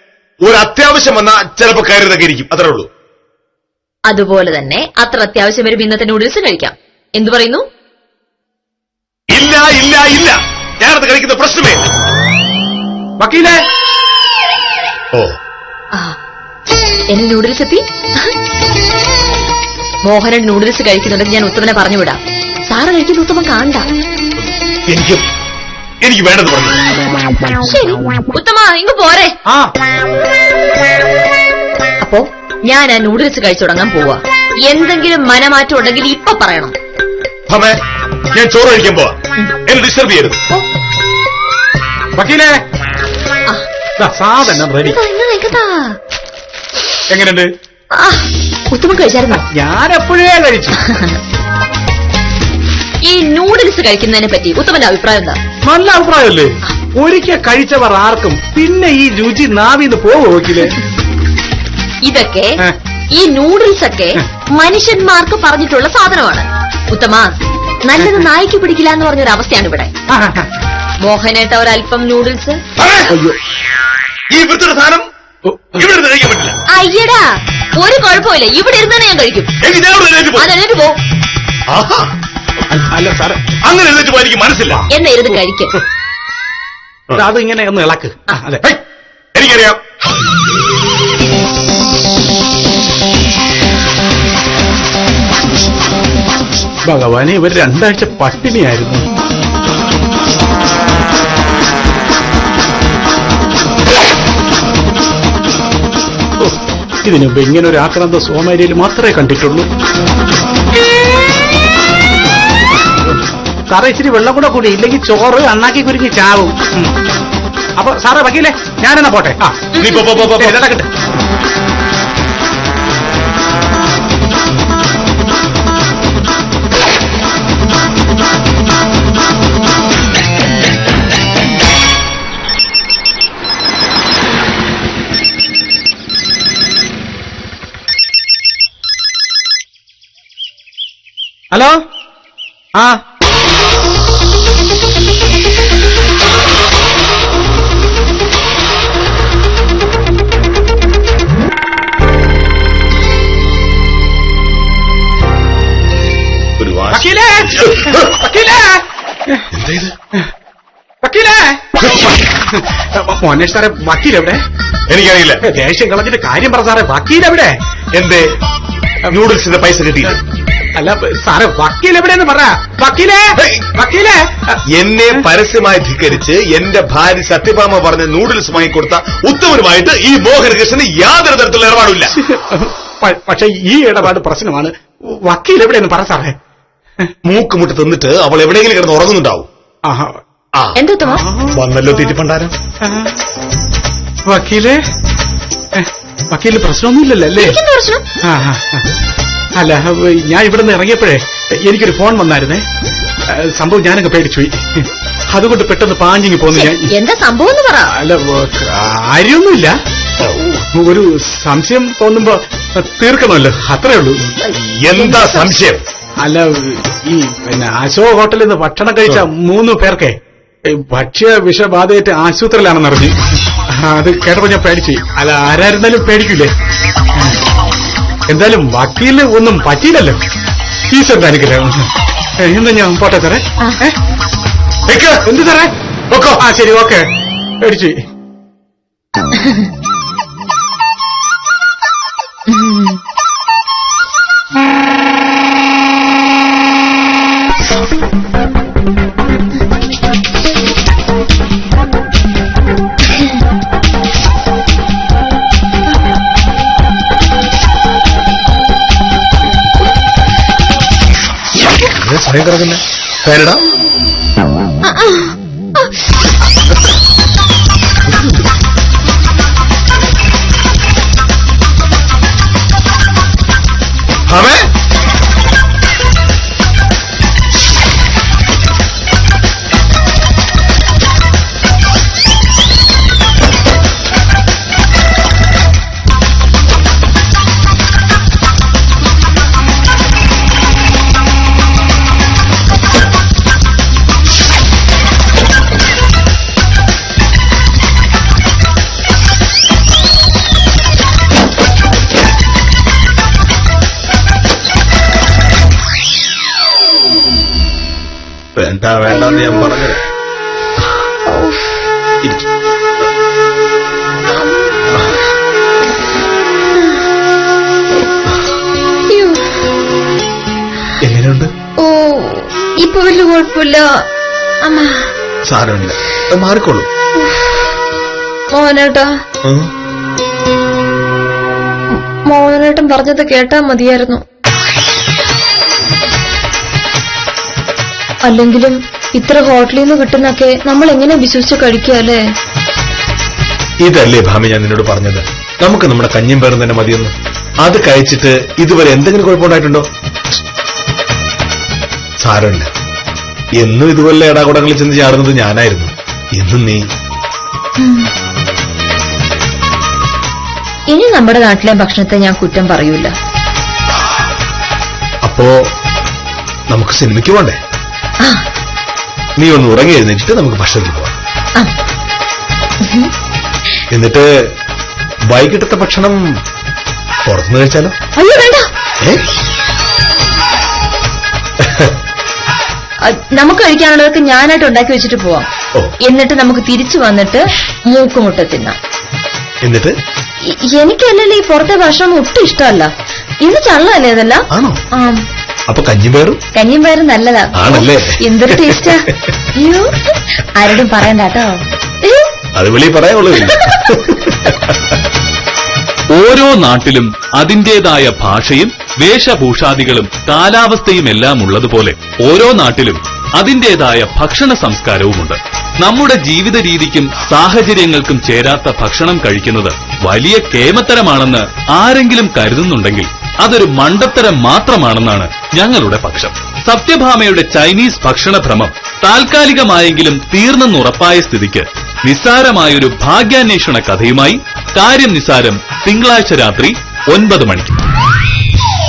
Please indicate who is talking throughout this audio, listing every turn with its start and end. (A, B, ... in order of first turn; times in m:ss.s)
0:00.4-0:02.9 A
0:04.1-0:07.6 B
0:09.3-0:11.9 A
0:13.2-0:13.6 C
0:17.1-0:18.3 B
0:20.0-0:23.9 B
0:24.9-0:25.2 A
0:26.0-0:26.8 A
0:27.6-0:29.3 B
0:32.0-0:36.7 B
0:37.5-0:37.8 A
0:38.3-0:40.4 A
0:42.2-0:42.6 C
0:44.0-0:45.0 C
0:44.8-0:46.0 B
0:47.1-0:47.5 C
0:48.0-0:49.4 B
0:49.3-0:50.8 C
0:50.8-0:51.2 B
0:53.0-0:55.4 B
0:55.6-1:00.8 C
1:02.0-1:02.6 B
1:03.1-1:07.3 B
1:07.8-1:09.9 B
1:10.1-1:10.5 C
1:11.0-1:12.6 B
1:12.8-1:13.1 A
1:13.1-1:13.4 C
1:14.3-1:15.1 A
1:15.4-1:15.8 C
1:15.8-1:16.6 A
1:16.7-1:17.3 B
1:17.8-1:19.5 B
1:19.6-1:20.5 A
1:20.4-1:21.0 B
1:21.7-1:22.1 A
1:22.7-1:23.4 C
1:23.6-1:24.9 A
1:24.9-1:25.8 B
1:27.2-1:28.6 C
1:29.4-1:29.8 A
1:36.8-1:39.0 C
1:46.4-1:49.7 C
1:52.9-1:53.2 C
1:53.7-1:56.9 C
1:57.8-2:00.9 C
1:59.7-2:00.1 B
1:59.8-2:00.6 A
2:21.5-2:21.8 C
2:22.8-2:23.0 C
2:36.6-2:38.0 A
2:36.9-2:39.5 C
2:39.5-2:40.0 A
2:41.0-2:44.4 C
2:44.9-2:45.4 A
2:45.4-2:47.6 C
2:47.9-2:48.4 A
2:49.1-2:50.2 A
2:50.8-2:54.6 C
2:53.4-2:53.7 A
2:54.7-3:02.1 A
3:02.1-3:06.4 C
3:07.2-3:09.5 A
3:09.8-3:10.2 C
3:10.8-3:11.2 B
3:11.1-3:11.6 C
3:11.5-3:12.6 A
3:12.8-3:13.2 C
3:14.3-3:14.8 C
3:15.7-3:17.6 C
3:17.4-3:18.0 B
3:18.2-3:18.9 C
3:19.6-3:22.6 C
3:23.3-3:26.9 C
3:26.5-3:27.9 B
3:28.0-3:29.8 C
3:30.5-3:34.3 C
3:34.4-3:35.6 B
3:34.6-3:35.8 A
3:36.2-3:46.5 C
3:47.2-3:47.4 C
3:48.3-3:50.2 C
3:50.9-3:51.9 C
3:52.4-3:54.0 C
3:54.9-3:55.3 A
3:55.3-3:55.7 C
3:56.1-3:56.4 A
3:56.4-3:57.1 C
3:57.6-3:58.0 C
3:59.4-3:59.7 B
4:02.5-4:03.0 B
4:21.8-4:23.6 A
4:24.8-4:25.9 B
4:28.1-4:28.5 A
4:34.3-4:34.7 A
5:08.6-5:10.0 A
5:09.2-5:09.6 B
5:11.3-5:11.8 B
5:12.2-5:12.5 A
5:14.3-5:15.2 B
5:19.1-5:19.6 B
5:21.0-5:21.5 A
5:21.8-5:23.9 B
5:24.6-5:25.1 B
5:25.5-5:26.9 A
5:27.2-5:27.7 B
5:28.5-5:29.1 B
5:29.4-5:29.7 A
5:31.9-5:34.2 B
5:38.3-5:42.2 B
5:43.8-5:49.8 A
5:52.2-5:52.7 A
5:53.6-5:56.8 A
5:57.8-5:58.1 B
6:00.9-6:03.1 B
6:05.2-6:05.5 A
6:06.7-6:07.6 A
6:09.4-6:11.2 A
6:12.8-6:13.1 B
6:13.9-6:14.3 A
6:15.3-6:16.2 A
6:17.3-6:17.9 A
6:18.2-6:18.7 B
6:21.6-6:22.0 A
6:23.0-6:25.5 B
6:26.1-6:28.8 B
6:29.6-6:29.9 A
6:30.7-6:32.9 B
6:33.4-6:35.2 B
6:34.5-6:34.8 A
6:35.7-6:36.4 A
6:36.6-6:42.3 B
6:37.6-6:39.3 A
6:42.6-6:44.8 A
6:43.4-6:44.0 B
6:46.1-7:17.8 D